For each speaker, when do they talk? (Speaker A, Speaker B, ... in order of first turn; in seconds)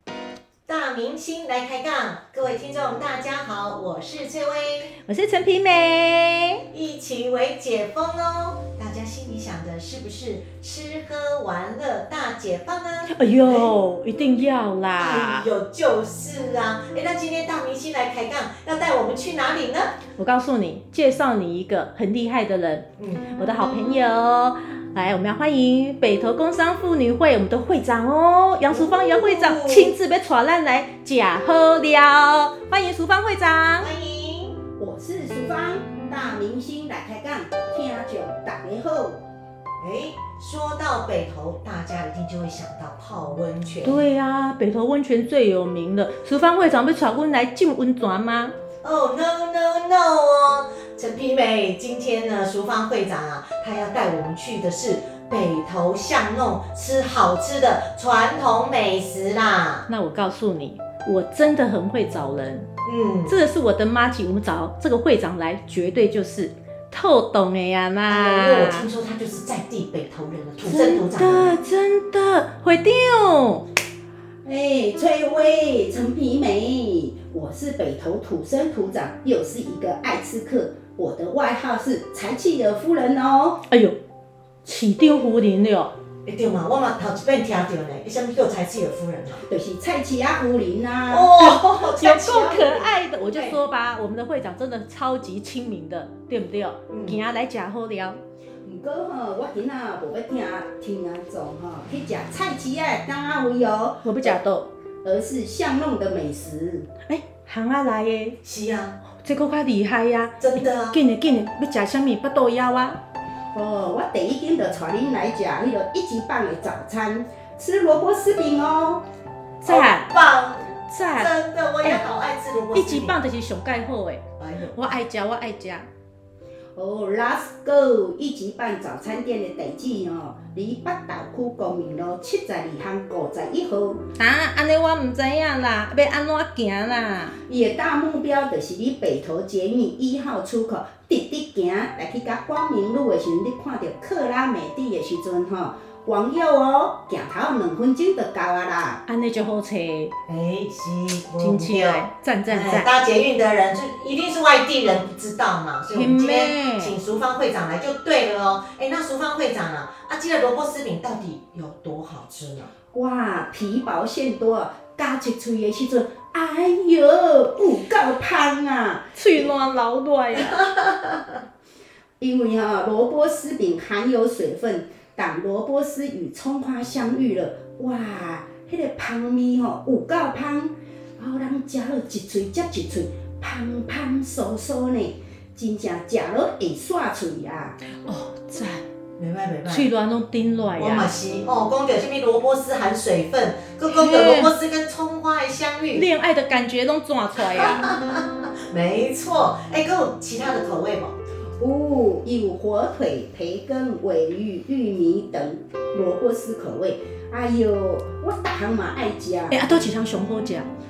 Speaker A: 0.7-5.0, 6.7-13.8, 15.0-20.0, 23.0-23.3, 28.7-30.0, 33.8-34.6, 39.8-44.0, 48.8-59.9, 62.8-63.4, 68.1-71.6, 86.2-89.4, 91.1-93.6, 96.9-97.2, 108.4-109.0, 110.4-111.0, 119.7-123.2, 124.4-124.9, 150.3-162.7, 170.8-171.2, 189.2-189.9, 190.8-196.1, 197.4-201.2
Speaker B: 5.0-6.7, 13.1-15.5, 20.2-33.9, 43.8-48.5, 59.9-62.7, 63.3-68.9, 70.6-73.7, 83.7-84.0, 84.7-85.9, 92.0-98.2, 104.0-104.7, 107.1-108.4, 109.1-113.0, 119.6-120.1, 120.9-122.0, 122.7-125.9, 134.2-137.4, 149.1-150.1, 151.4-152.9, 155.9-157.0, 169.2-170.7, 188.0-188.8, 189.7-191.1, 193.9-194.5, 195.9-197.8, 209.5-210.7
Speaker C: 34.8-39.2, 74.5-83.6, 89.4-91.6, 98.7-104.4, 105.0-106.9, 113.5-119.0, 126.8-134.0, 137.5-149.0, 162.9-169.5, 172.2-187.8, 201.6-209.7